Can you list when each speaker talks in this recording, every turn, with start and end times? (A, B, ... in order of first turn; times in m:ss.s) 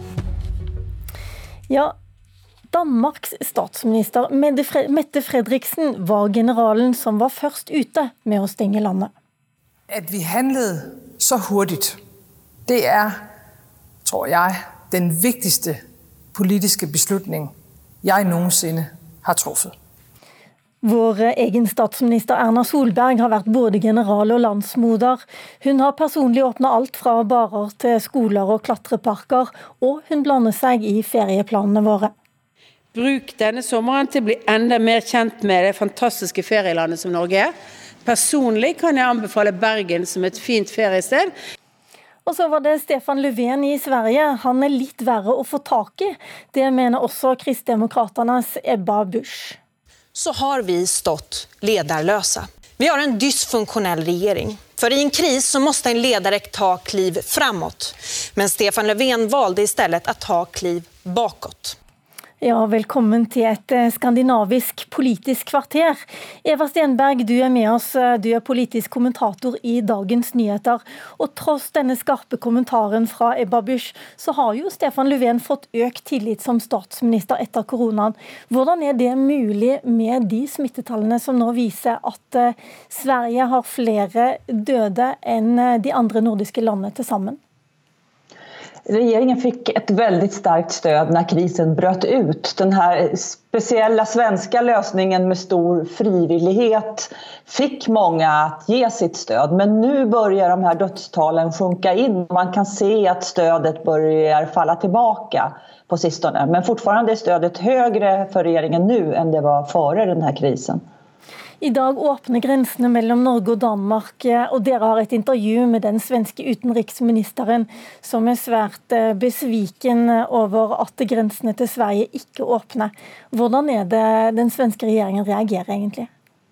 0:01.7-0:01.9 A
0:02.7-0:09.1 A
0:09.9-0:12.0 B
0:12.6-0:13.2 B
0:14.0-0:15.8 B
0:16.3-0:19.7 B
0:20.8-0:32.1 A
0:32.9-0:37.5 C
0:38.0-0:41.3 C
0:42.2-0:49.6 A
0:50.1-1:01.8 D
1:02.4-1:27.4 A
1:28.9-1:50.8 E
1:51.6-2:06.1 A